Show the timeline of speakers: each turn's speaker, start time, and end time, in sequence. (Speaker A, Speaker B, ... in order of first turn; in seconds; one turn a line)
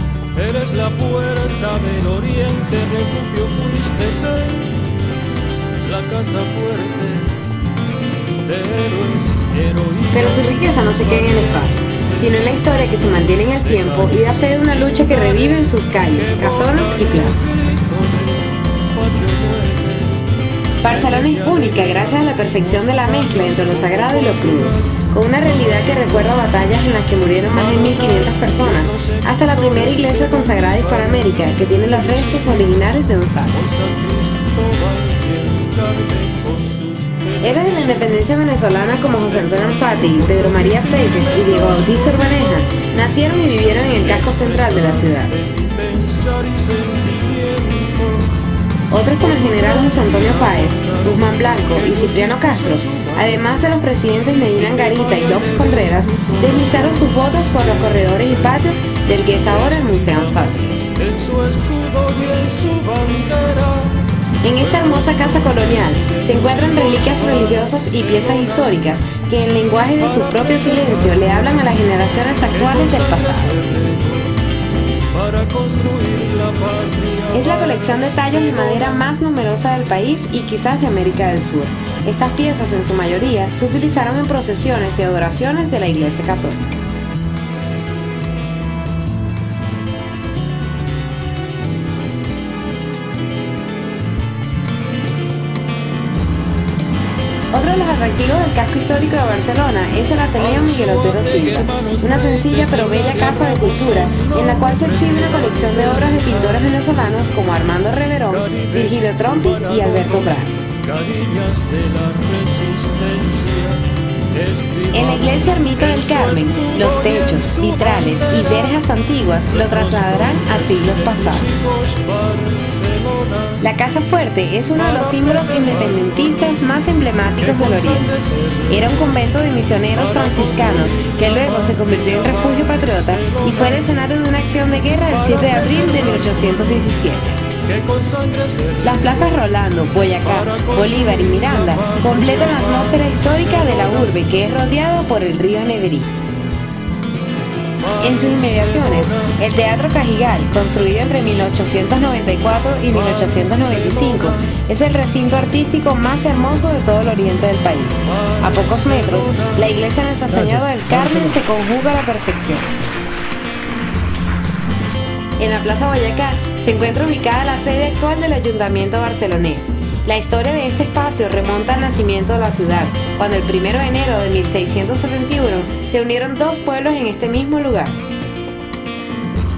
Speaker A: 0.3-4.7
Speaker A: 5.8-7.4
Speaker A: 8.4-12.7
Speaker B: 10.1-17.4
Speaker A: 13.6-20.2
Speaker B: 20.8-33.6
Speaker A: 20.8-26.4
Speaker A: 27.5-32.8
Speaker A: 33.5-38.2
Speaker B: 37.4-45.3
Speaker A: 39.3-42.8
Speaker A: 43.9-48.3
Speaker B: 48.9-60.8
Speaker A: 49.2-53.6
Speaker A: 54.6-58.6
Speaker A: 59.4-64.1
Speaker B: 64.4-73.6
Speaker A: 64.6-68.8
Speaker A: 70.0-71.5
Speaker A: 72.5-74.4
Speaker A: 75.1-79.1
Speaker B: 77.3-86.7
Speaker B: 97.5-110.6
Speaker A: 100.4-106.7
Speaker A: 108.3-118.8
Speaker B: 114.9-121.7
Speaker A: 119.5-123.6
Speaker B: 123.6-128.1
Speaker A: 124.7-126.6
Speaker A: 127.4-129.2
Speaker B: 128.7-137.4
Speaker A: 129.9-133.8
Speaker A: 135.1-136.9
Speaker A: 137.7-139.5
Speaker B: 138.8-146.2
Speaker A: 140.2-144.2
Speaker A: 147.8-149.4
Speaker B: 148.0-162.7
Speaker A: 152.9-154.5
Speaker A: 158.1-159.7
Speaker B: 165.4-178.0